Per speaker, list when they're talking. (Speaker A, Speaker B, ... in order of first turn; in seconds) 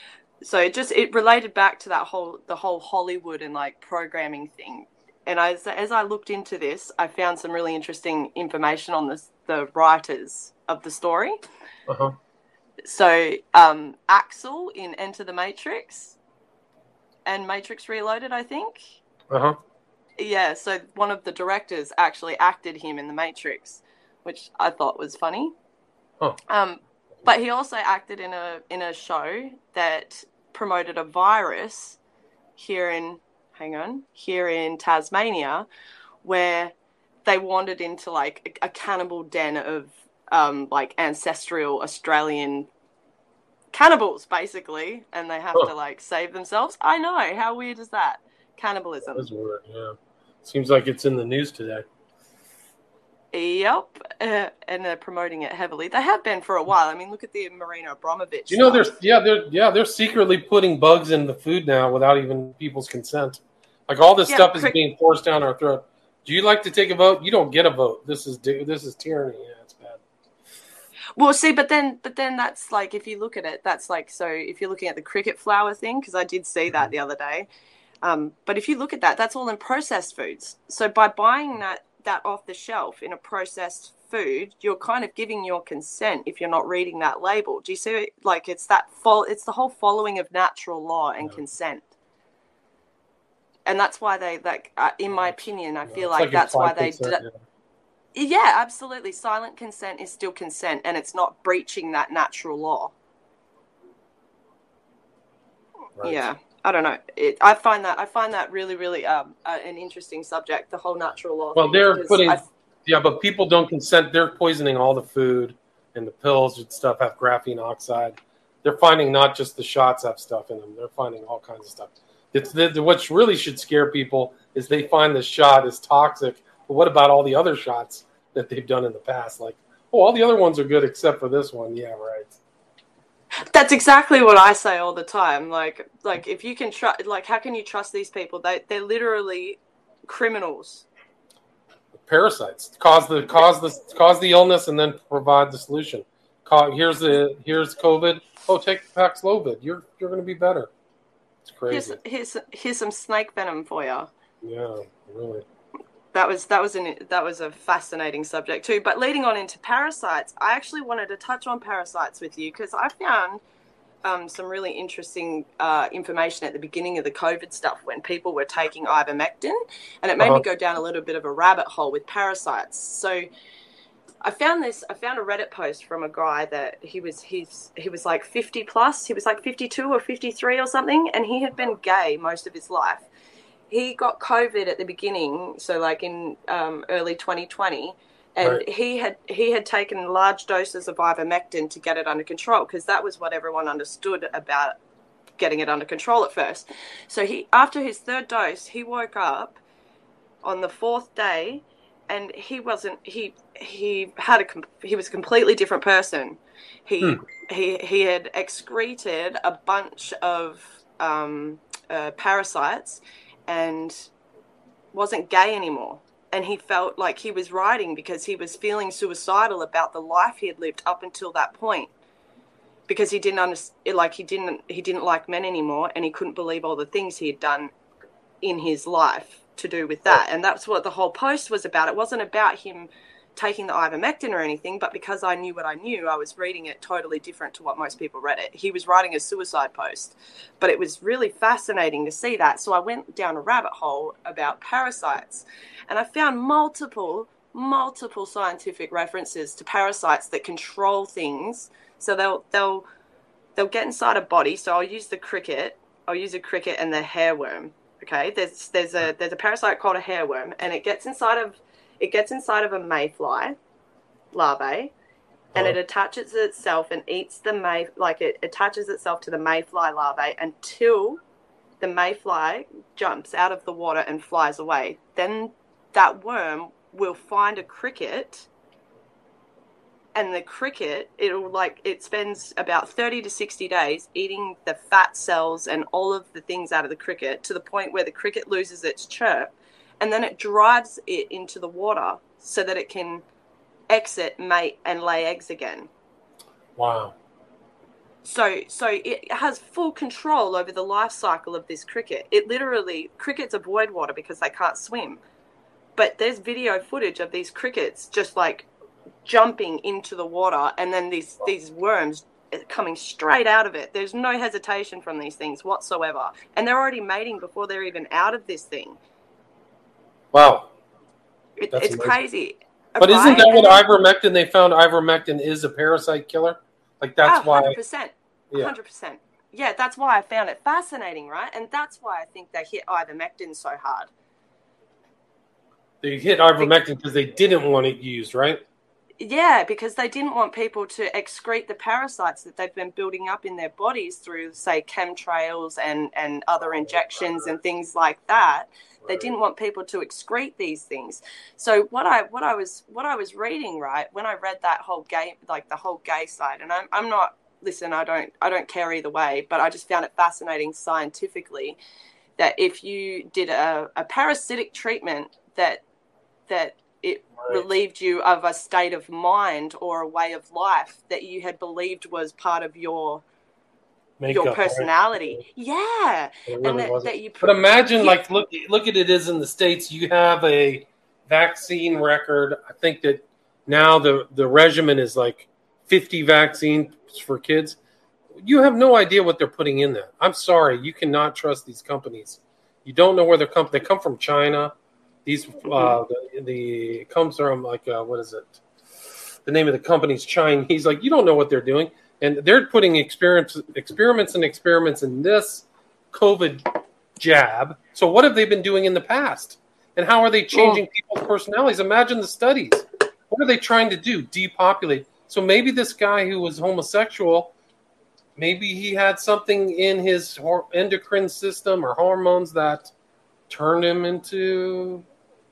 Speaker A: 0.4-11.4, 12.8-16.2, 17.3-19.0, 20.2-25.5, 26.5-32.0, 32.6-35.7, 36.2-36.7, 37.3-42.7, 43.7-49.3, 53.3-58.9, 64.3-64.8, 71.2-77.5, 78.0-91.9, 93.7-97.2, 98.1-102.9, 106.0-112.5, 133.4-140.8, 151.7-154.1, 156.1-163.4, 164.0-173.3, 174.2-183.1, 183.7-194.8, 195.4-199.6, 200.4-214.1, 214.9-221.9, 222.9-227.7, 228.4-252.8, 253.6-263.6, 264.3-264.9, 265.6-271.2, 271.8-278.5, 280.1-293.2, 293.9-295.9, 298.2-305.2, 306.0-308.7, 309.2-319.0, 321.6-323.8, 327.2-334.1, 339.2-361.8, 362.4-365.8, 366.5-373.2, 374.3-378.2
Speaker B: 11.9-12.2, 19.3-19.6, 49.1-51.9, 58.5-70.0, 95.9-97.4, 106.0-106.3, 111.5-132.3, 141.9-150.7, 151.4-152.0, 154.4-155.4, 296.8-297.1, 320.3-320.7, 321.7-322.2, 323.0-327.8, 336.0-338.6, 346.9-347.5, 349.0-349.3, 374.2-375.4, 376.5-387.8, 388.3-398.6, 399.4-417.5, 418.4-422.9, 423.5-425.1